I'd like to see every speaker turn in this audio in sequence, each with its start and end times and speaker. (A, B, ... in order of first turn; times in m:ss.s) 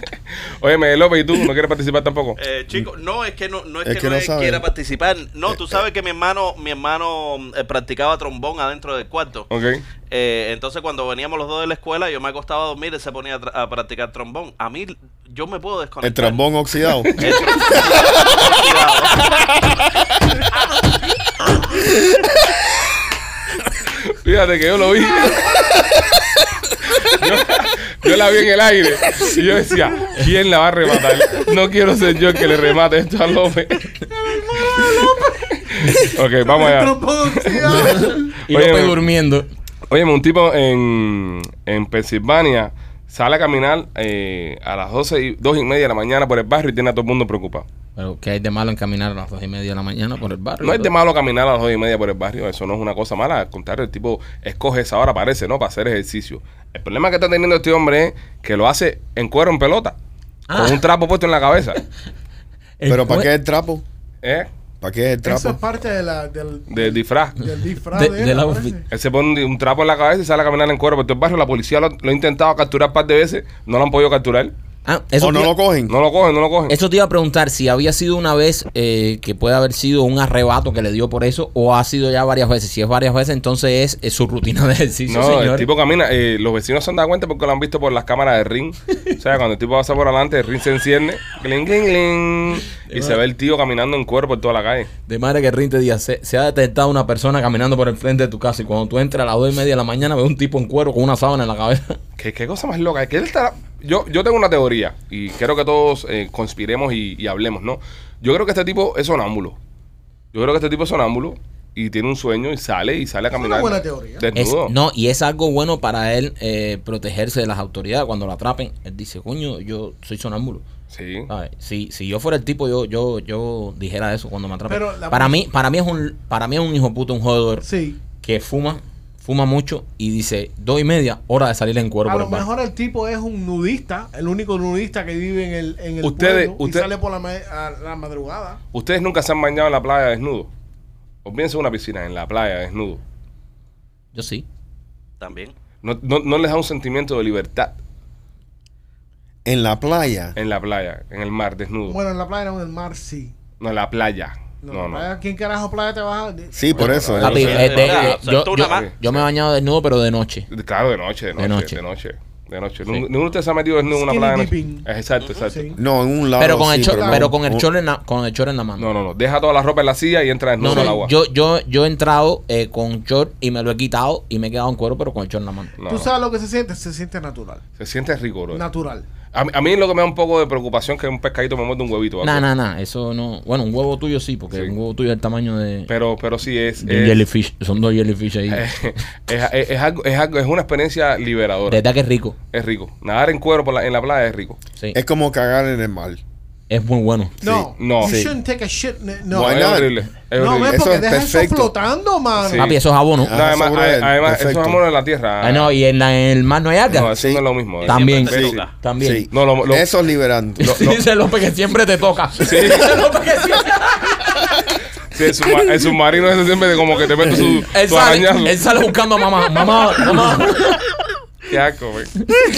0:00.6-0:02.4 A
0:02.4-0:09.5 B
0:03.8-0:04.7 C
0:05.5-0:05.8 C
0:09.5-0:09.8 A
0:10.1-0:16.4 B
0:16.0-0:18.5 C
0:17.2-0:19.4 B
0:24.1-0:25.7 A
0:27.0-0:33.9 A
0:34.1-0:38.4 D
0:35.6-0:39.0 A
0:37.8-0:39.5 E
0:39.9-0:47.7 A
0:48.0-0:50.9 E
0:50.6-1:00.0 A
1:00.5-1:00.8 E
1:00.5-1:01.8 A
1:02.8-1:03.3 E
1:02.9-1:03.8 C
1:04.2-1:04.5 A
1:04.8-1:05.6 C
1:05.2-1:08.8 D
1:06.7-1:07.4 A
1:07.9-1:08.8 E
1:08.9-1:14.5 A
1:14.9-1:15.5 E
1:15.2-1:16.0 C
1:15.9-1:16.8 A
1:16.7-1:25.7 E
1:25.1-1:34.9 A
1:32.8-1:33.2 E
1:35.1-1:42.0 E
1:42.2-1:49.6 A
1:50.3-1:54.7 A
1:53.3-1:54.3 D
1:54.4-2:00.6 E
2:00.9-2:01.3 A
2:01.3-2:07.7 E
2:04.7-2:05.4 D
2:07.6-2:08.0 D
2:08.2-2:12.5 E
2:12.1-2:18.6 D
2:16.0-2:16.9 A
2:18.7-2:20.5 A
2:21.2-2:23.0 A
2:24.1-2:24.5 E
2:25.2-2:25.5 B
2:25.8-2:27.8 A
2:29.5-2:30.4 C
2:30.4-2:32.0 A
2:31.9-2:33.4 D
2:33.6-2:35.1 A
2:34.6-2:37.2 D
2:36.5-2:37.8 C
2:36.8-2:39.2 A
2:37.2-2:38.9 B
2:37.2-2:40.5 E
2:40.5-2:45.7 A
2:41.4-2:41.8 E
2:43.9-2:44.9 D
2:45.4-2:45.8 D
2:45.8-2:47.7 C
2:46.4-2:48.9 E
2:46.9-2:47.3 D
2:48.8-2:51.1 A
2:50.6-2:55.7 E
2:55.8-2:56.1 A
2:55.8-2:57.6 D
2:57.8-2:58.6 A
2:58.5-2:59.0 D
2:59.3-3:02.5 A
3:02.2-3:05.9 E
3:05.9-3:07.3 A
3:06.8-3:08.6 E
3:08.5-3:11.8 A
3:11.7-3:12.4 E
3:12.5-3:14.6 A
3:14.9-3:16.2 C
3:16.7-3:17.4 E
3:17.4-3:18.4 C
3:17.4-3:19.6 D
3:17.8-3:18.2 A
3:19.3-3:19.9 C
3:19.4-3:20.8 A
3:20.4-3:22.8 D
3:20.6-3:21.7 C
3:22.4-3:22.8 A
3:22.5-3:23.3 E
3:23.2-3:24.8 C
3:23.3-3:25.7 A
3:25.4-3:27.1 E
3:26.9-3:28.6 A
3:26.9-3:27.4 C
3:27.8-3:28.7 B
3:27.8-3:29.3 E
3:28.3-3:31.0 C
3:29.3-3:29.9 A
3:30.6-3:34.6 E
3:32.4-3:33.0 A
3:35.1-3:38.6 A
3:37.4-3:40.8 E
3:41.5-3:42.2 A